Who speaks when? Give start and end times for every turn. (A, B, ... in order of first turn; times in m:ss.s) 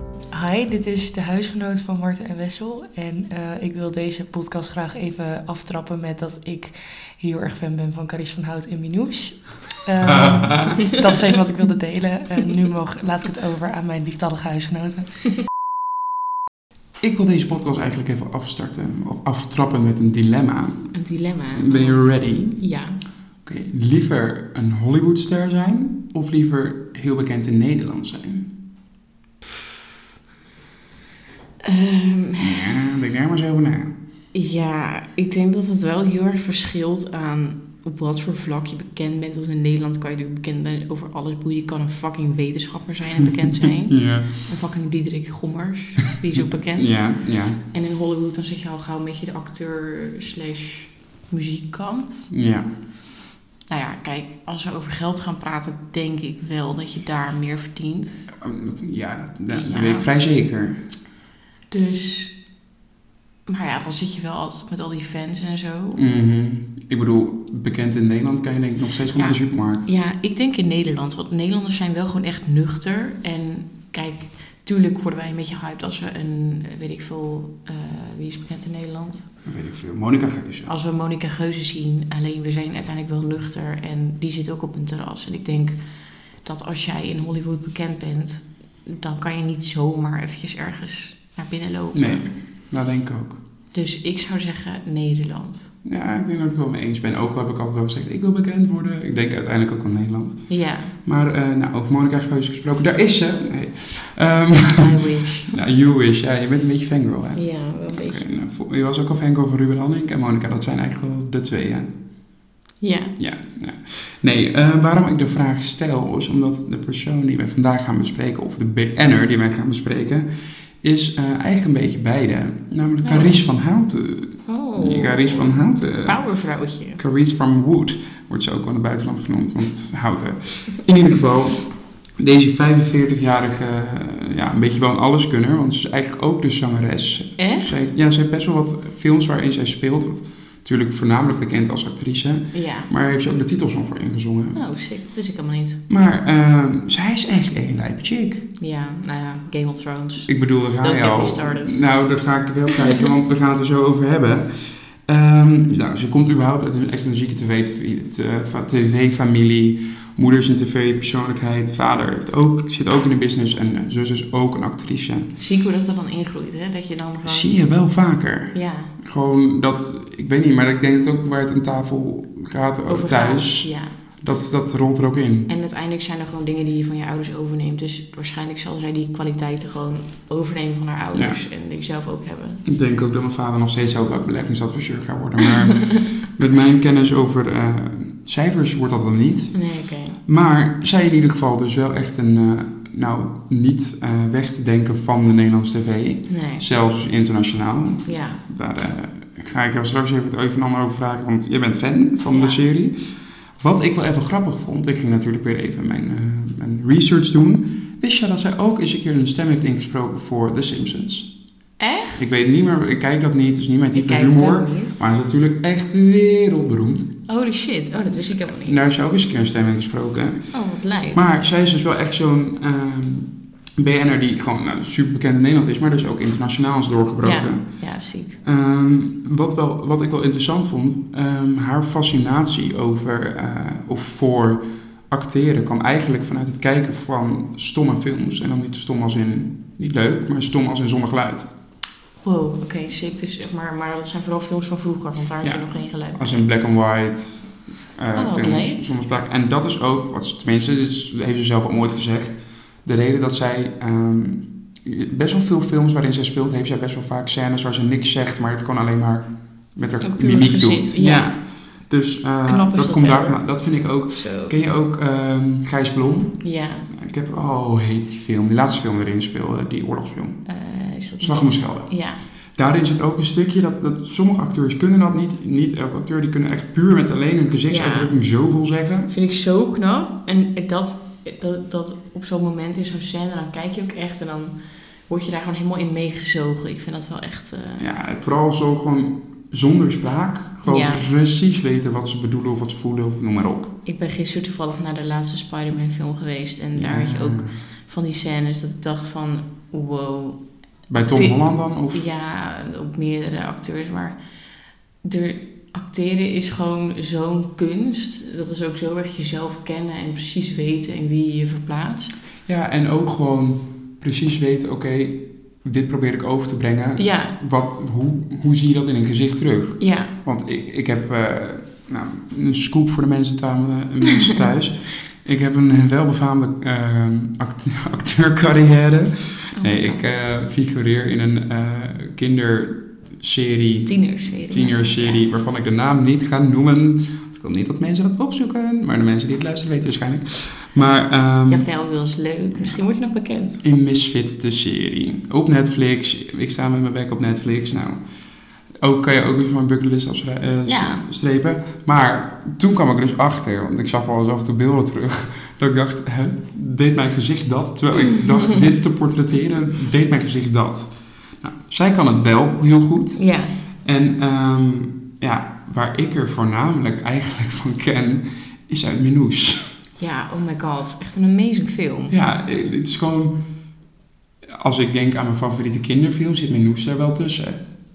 0:00.3-0:15.3 A
0:10.0-0:10.8 B
0:17.0-0:20.9 B
0:20.9-0:23.0 C
0:21.6-0:22.6 B
0:23.4-0:28.5 B
0:31.6-0:32.8 C
0:32.4-0:33.9 B
0:34.3-0:52.3 C
0:43.9-0:44.3 B
0:46.8-0:47.6 B
0:52.3-0:52.7 B
0:53.7-0:58.4 C
0:58.4-1:00.8 B
0:59.5-1:00.1 C
1:01.7-1:02.4 C
1:03.5-1:06.0 C
1:06.0-1:09.9 B
1:09.2-1:19.3 C
1:19.4-1:20.7 B
1:20.7-1:25.8 C
1:26.4-1:32.3 C
1:31.9-1:33.4 B
1:33.7-1:35.7 C
1:35.8-1:51.9 B
1:40.5-1:40.9 C
1:44.8-1:45.6 C
1:47.4-1:48.2 C
1:52.8-1:53.2 C
1:53.2-2:00.3 B
2:00.8-2:06.2 B
2:03.0-2:03.4 C
2:04.5-2:07.0 C
2:07.0-2:11.7 B
2:12.2-2:24.6 B
2:17.4-2:17.9 C
2:22.5-2:22.9 C
2:24.6-2:25.8 C
2:25.9-2:28.5 B
2:28.6-2:31.8 C
2:30.3-2:45.3 B
2:45.4-2:47.5 C
2:47.2-2:53.7 B
2:48.5-2:48.9 C
2:52.9-2:53.9 C
2:54.2-2:55.5 B
2:55.5-3:02.6 C
3:01.1-3:01.4 B
3:02.6-3:09.6 B
3:09.5-3:10.2 C
3:10.2-3:23.0 B
3:16.3-3:16.6 C
3:18.1-3:18.4 C
3:22.3-3:22.6 C
3:23.6-3:31.3 B
3:31.8-3:32.4 C
3:32.2-3:37.1 B
3:33.9-3:35.0 C
3:37.3-3:38.9 C
3:38.6-4:01.5 B
3:40.5-3:41.2 C
3:47.2-3:48.4 C
4:02.2-4:06.4 C
4:05.4-4:30.4 B
4:08.2-4:08.8 C
4:20.0-4:21.3 C
4:22.5-4:23.4 C
4:24.1-4:24.6 C
4:26.4-4:26.9 C
4:30.5-4:32.2 C
4:31.2-4:31.9 B
4:32.6-4:39.1 B
4:37.7-4:38.1 C
4:39.1-4:44.6 C
4:45.1-4:47.9 C
4:47.8-4:53.7 B
4:50.6-4:51.1 C
4:53.8-5:00.4 C
4:56.8-4:57.6 B
5:00.9-5:02.0 B
5:01.1-5:01.4 C
5:01.9-5:04.2 C
5:05.0-5:12.2 C
5:12.5-5:41.7 B
5:17.0-5:17.4 C
5:19.8-5:20.1 C
5:29.6-5:30.2 C
5:33.9-5:35.2 C
5:41.5-5:43.6 C
5:43.6-5:48.0 B
5:48.8-6:09.7 B
5:50.7-5:51.0 C
6:03.2-6:03.5 C
6:10.0-6:12.2 C
6:12.1-6:13.4 B
6:14.5-6:17.7 B